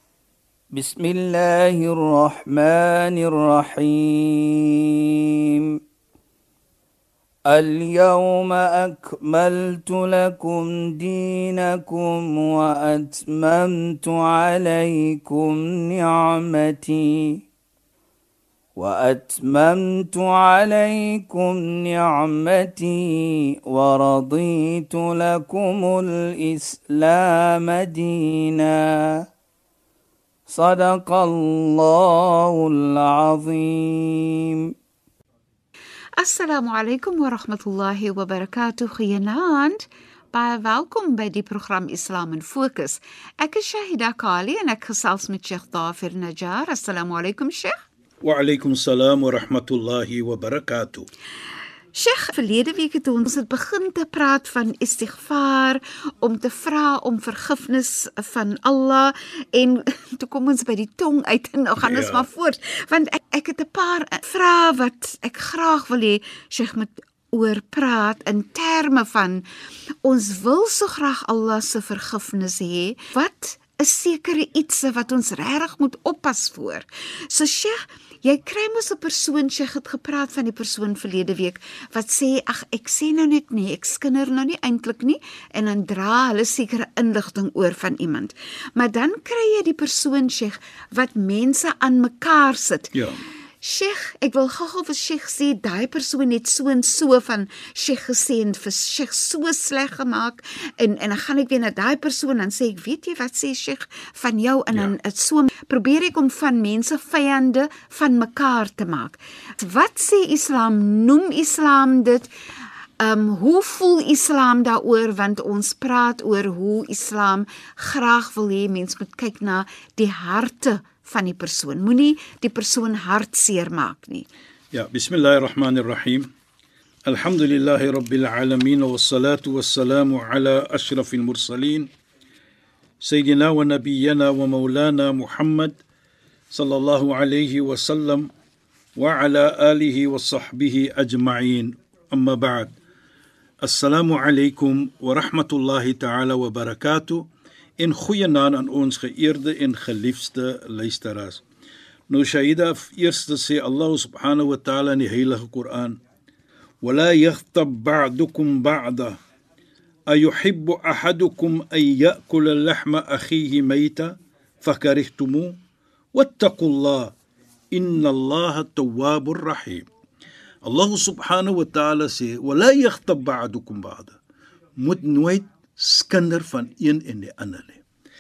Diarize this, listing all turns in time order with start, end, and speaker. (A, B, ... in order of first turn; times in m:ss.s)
0:00.7-0:05.8 A
0:07.5-0:17.4 A
0:18.8-0:29.2 A
0:30.5-0:34.7 A
0:36.2-0:39.8 B
0:40.3-0:47.7 B
0:48.2-0:51.1 C
0:51.9-1:09.4 B
1:01.8-1:02.3 C
1:10.0-1:32.9 B
1:32.9-1:33.2 C
1:33.6-1:52.3 B
1:53.0-2:04.3 B
2:04.7-2:06.3 C
2:07.1-2:11.9 C
2:13.0-2:15.8 C
2:16.5-2:18.3 C
2:19.0-2:22.7 C
2:23.6-2:27.3 C
2:27.8-2:31.4 C
2:32.1-2:36.0 C
2:36.8-2:39.2 C
2:40.1-2:45.6 C
2:46.1-2:47.1 C
2:47.7-2:49.9 C
2:50.6-2:54.2 C
2:54.8-2:57.8 C